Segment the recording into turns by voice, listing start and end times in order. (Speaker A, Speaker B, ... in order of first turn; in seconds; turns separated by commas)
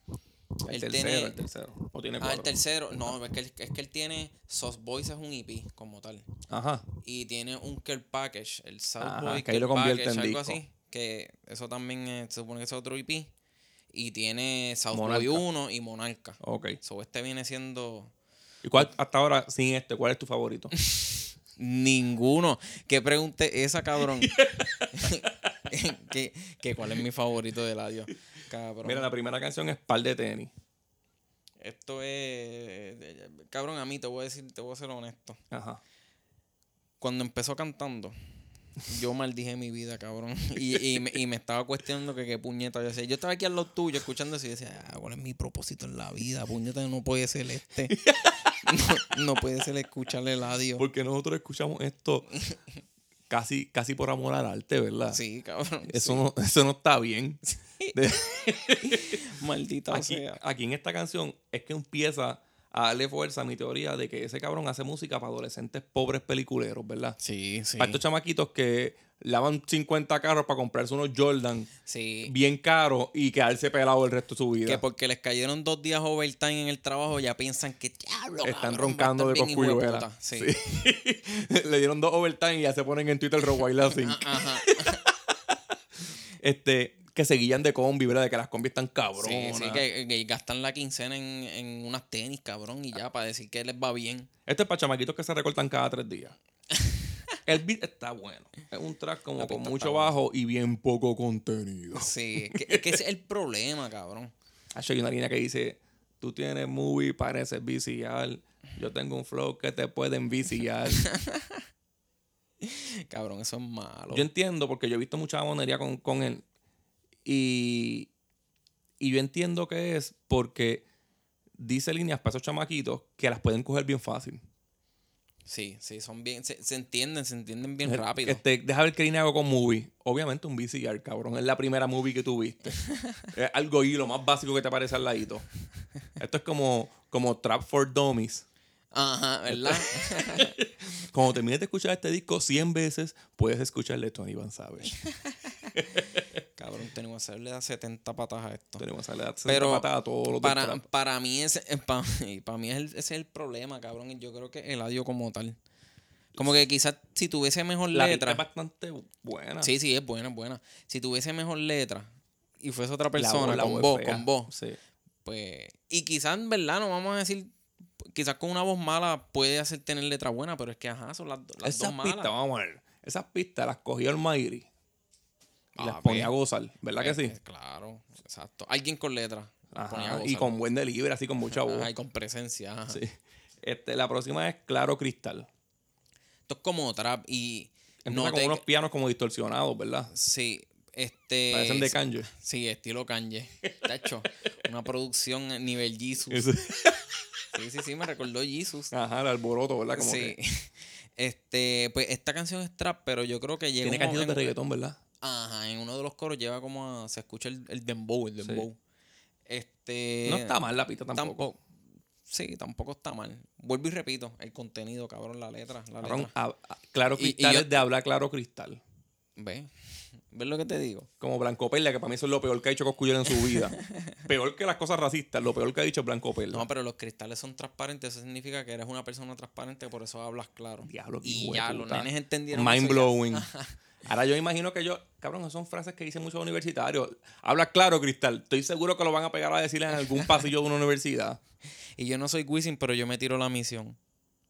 Speaker A: 0.6-2.5, Speaker B: 0.7-1.4, Speaker B: 2.2-6.3, Speaker A: 6.5-6.9, Speaker B: 7.0-13.3, Speaker A: 9.0-10.6, Speaker B: 13.9-18.1, Speaker A: 14.9-15.4, Speaker A: 16.4-16.8, Speaker A: 18.6-20.7, Speaker B: 20.9-29.1, Speaker A: 24.1-25.3, Speaker A: 28.8-30.5, Speaker B: 31.6-35.4, Speaker A: 35.5-35.8, Speaker B: 37.0-38.1, Speaker B: 38.8-48.0, Speaker A: 47.9-48.7, Speaker B: 48.6-50.9, Speaker A: 50.8-52.3, Speaker A: 53.3-55.2, Speaker B: 55.1-56.2, Speaker A: 55.9-57.4, Speaker B: 57.5-58.0, Speaker A: 57.9-59.2, Speaker B: 58.8-60.4, Speaker A: 59.9-67.2, Speaker B: 67.2-68.0, Speaker A: 67.8-71.7, Speaker B: 71.9-72.3, Speaker A: 72.2-74.8, Speaker B: 74.7-80.5, Speaker A: 78.4-85.6, Speaker B: 83.9-85.0, Speaker A: 86.4-89.8, Speaker B: 89.2-94.3, Speaker A: 94.5-96.3, Speaker A: 97.4-103.0, Speaker B: 99.4-100.2, Speaker B: 102.0-104.3, Speaker A: 104.7-111.1, Speaker B: 110.9-111.6, Speaker B: 112.6-114.3, Speaker A: 114.1-116.4, Speaker A: 117.2-118.1, Speaker A: 119.0-120.8, Speaker A: 121.6-124.4, Speaker B: 125.5-128.4, Speaker A: 127.8-135.4, Speaker B: 132.9-133.3, Speaker A: 136.2-138.4, Speaker B: 138.9-140.5, Speaker A: 139.5-144.9, Speaker B: 145.3-145.7, Speaker A: 145.8-146.2, Speaker B: 146.6-148.8, Speaker A: 148.8-150.8, Speaker B: 149.4-155.6, Speaker B: 156.3-158.4, Speaker A: 157.9-159.7, Speaker B: 159.6-164.5, Speaker A: 163.2-164.8, Speaker B: 165.2-172.3, Speaker A: 171.6-174.7, Speaker B: 175.8-176.3, Speaker A: 175.8-177.3, Speaker B: 176.9-180.6, Speaker A: 179.7-181.9, Speaker B: 181.5-183.0, Speaker A: 182.9-185.5, Speaker B: 186.5-188.6, Speaker A: 188.0-190.1, Speaker B: 190.1-196.5, Speaker A: 191.5-192.3, Speaker A: 196.3-197.1, Speaker B: 197.5-198.9, Speaker A: 198.9-200.3, Speaker B: 199.9-204.6, Speaker A: 203.8-205.0, Speaker B: 205.2-208.8, Speaker B: 209.5-210.6, Speaker A: 210.2-211.4, Speaker B: 211.1-211.6, Speaker B: 212.3-216.3, Speaker A: 216.0-218.8, Speaker B: 217.2-217.8, Speaker B: 219.3-219.7, Speaker B: 220.3-221.1, Speaker A: 221.2-226.7, Speaker B: 226.5-233.7, Speaker A: 230.8-233.5, Speaker A: 234.0-241.4, Speaker B: 242.0-244.0